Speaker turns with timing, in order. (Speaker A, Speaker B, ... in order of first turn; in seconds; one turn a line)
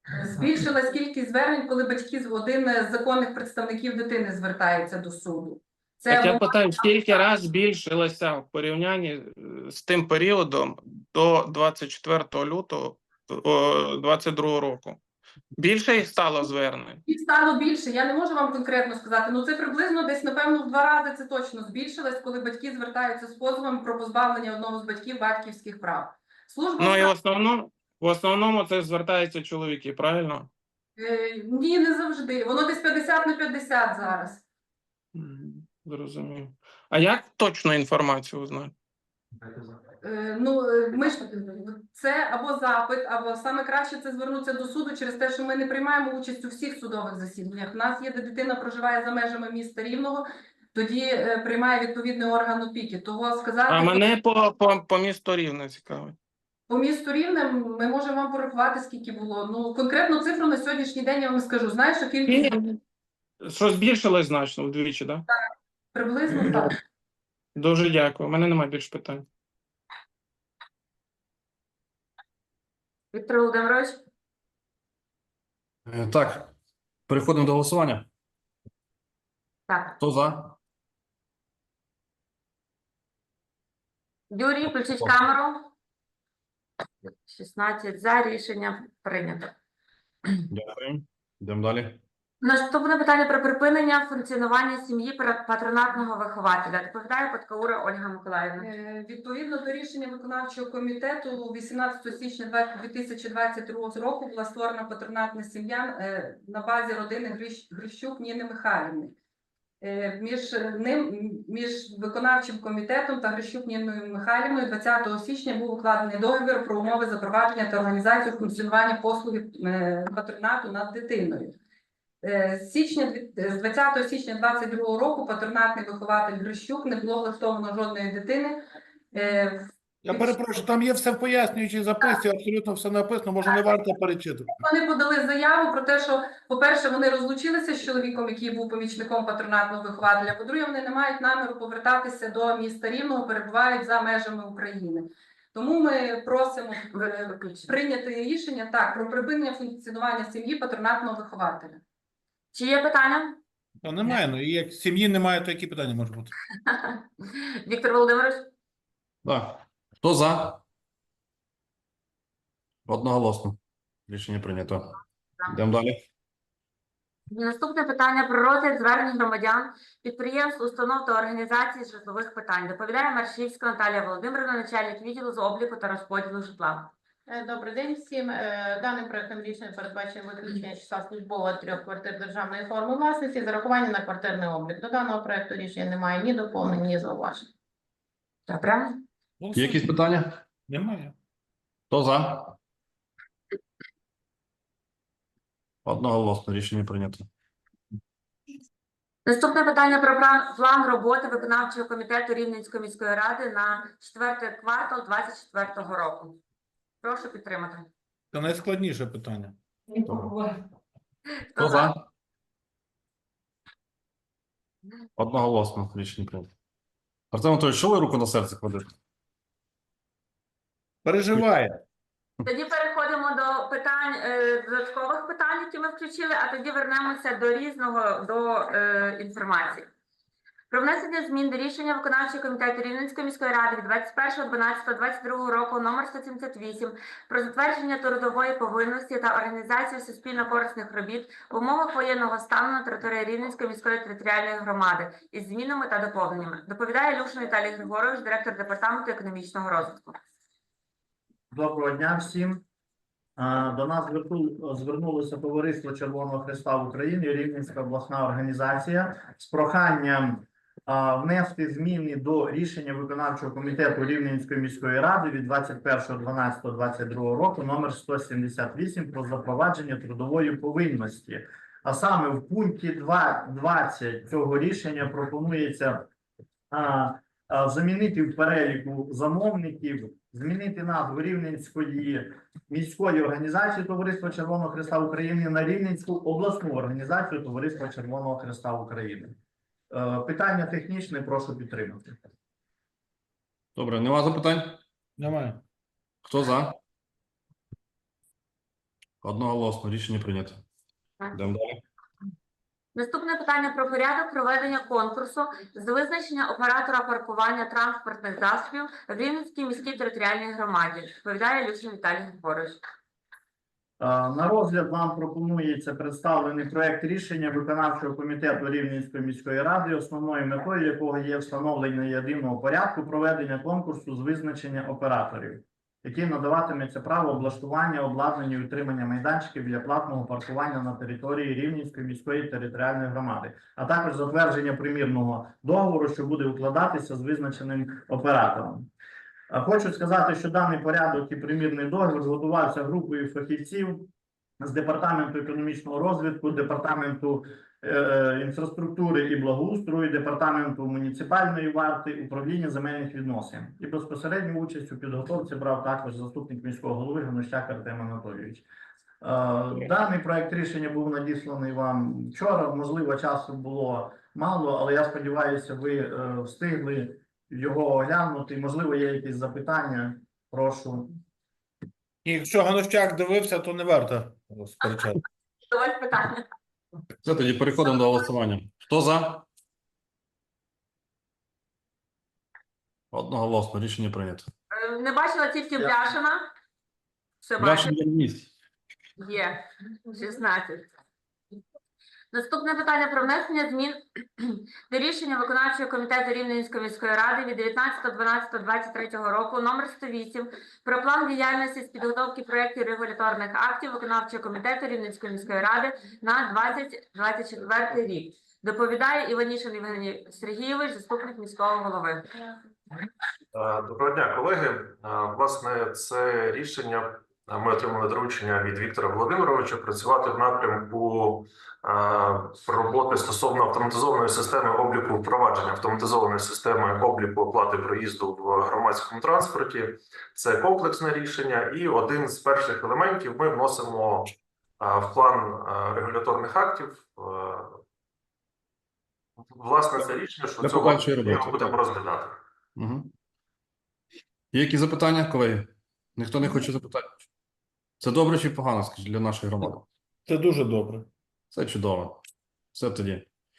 Speaker A: 0.1-6.5
Speaker B: 6.1-15.0
Speaker B: 15.6-17.0
Speaker A: 17.1-27.1
Speaker B: 26.8-30.5
Speaker A: 31.0-34.4
Speaker B: 35.1-38.7
Speaker A: 40.0-54.1
Speaker B: 53.7-56.2
Speaker A: 56.7-62.6
Speaker B: 62.3-62.8
Speaker B: 63.4-65.2
Speaker A: 66.0-66.8
Speaker B: 67.6-69.3
Speaker C: 73.1-74.0
Speaker D: 75.9-76.5
Speaker D: 77.1-78.1
Speaker C: 79.7-80.0
Speaker D: 80.0-80.6
Speaker C: 84.3-85.7
Speaker C: 87.3-89.5
Speaker D: 90.5-92.0
Speaker C: 92.4-98.7
Speaker A: 98.6-109.2
Speaker A: 109.8-121.6
Speaker A: 122.2-128.6
Speaker A: 129.1-130.4
Speaker E: 130.0-134.6
Speaker A: 134.6-151.8
Speaker C: 146.9-147.7
Speaker C: 152.5-153.4
Speaker E: 153.8-156.3
Speaker C: 156.7-158.5
Speaker D: 159.2-160.6
Speaker D: 162.9-163.6
Speaker D: 164.1-165.0
Speaker D: 165.5-166.0
Speaker C: 167.3-176.9
Speaker F: 177.3-187.5
Speaker C: 188.5-189.0
Speaker E: 189.4-190.0
Speaker D: 189.6-190.4
Speaker E: 190.7-191.2
Speaker D: 191.9-192.6
Speaker D: 195.8-197.3
Speaker C: 199.3-206.4
Speaker C: 207.0-207.9
Speaker E: 208.3-209.6
Speaker D: 210.1-210.3
Speaker C: 211.6-211.9
Speaker D: 211.6-212.0
Speaker D: 215.2-216.5
Speaker D: 217.3-218.9
Speaker E: 221.0-221.8
Speaker C: 222.4-229.9
Speaker C: 230.7-250.2
Speaker G: 251.5-252.6
Speaker G: 253.4-276.1
Speaker G: 276.7-289.4
Speaker G: 289.9-292.2
Speaker D: 293.8-294.8
Speaker E: 295.2-295.6
Speaker D: 296.3-296.8
Speaker D: 299.2-300.6
Speaker D: 301.3-301.8
Speaker C: 302.9-312.8
Speaker G: 314.0-338.9
Speaker G: 339.5-358.7
Speaker G: 359.2-371.1
Speaker E: 372.2-375.2
Speaker C: 375.7-376.5
Speaker D: 377.2-379.5
Speaker D: 383.1-384.5
Speaker C: 384.7-386.5
Speaker C: 387.4-388.0
Speaker D: 387.6-388.5
Speaker C: 389.2-390.9
Speaker C: 392.3-412.2
Speaker H: 413.5-437.8
Speaker H: 439.4-442.4
Speaker D: 440.6-441.8
Speaker D: 442.8-443.1
Speaker D: 444.5-447.2
Speaker D: 448.0-449.9
Speaker E: 450.3-451.1
Speaker D: 451.5-452.2
Speaker D: 452.7-453.3